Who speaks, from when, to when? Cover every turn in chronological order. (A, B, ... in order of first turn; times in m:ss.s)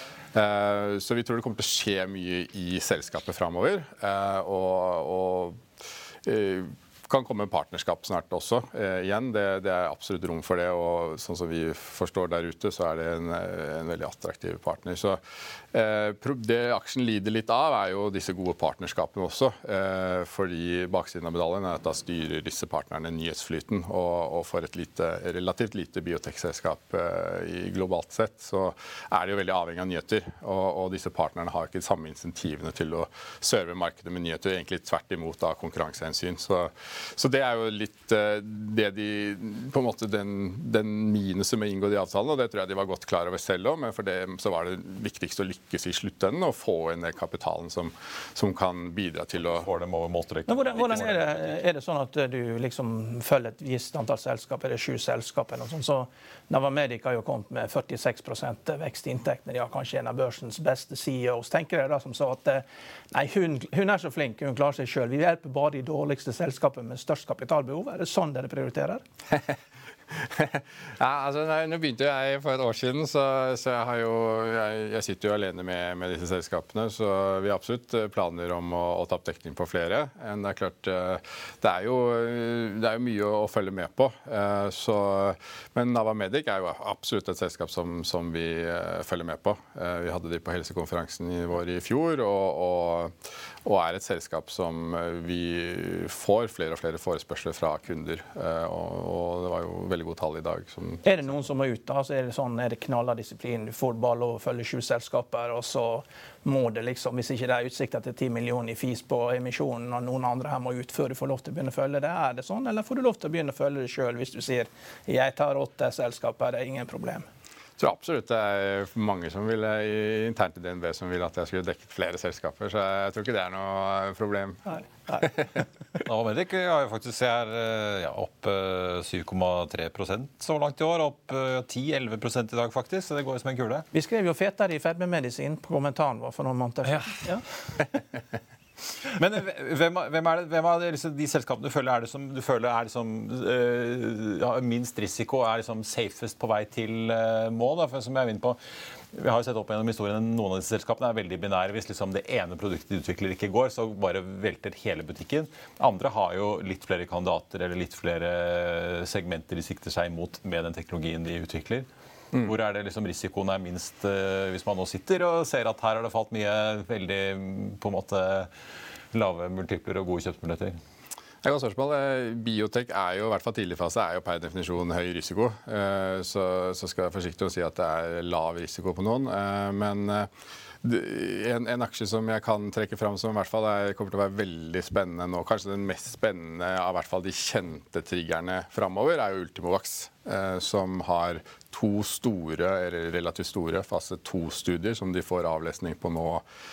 0:00.3-0:05.6 A
0:06.2-0:15.2 A
0:15.7-0:49.7 A
0:49.5-0:51.6 B
0:50.5-1:09.0 C
1:10.1-1:41.3 A
1:41.0-1:57.2 C
1:57.8-2:05.6 A
2:06.0-2:13.8 B
2:13.9-2:17.4 C
2:16.9-2:17.2 B
2:19.0-2:28.6 B
2:29.1-2:48.5 B
2:49.1-2:50.8 B
2:51.4-3:00.3 A
3:00.8-3:16.4 A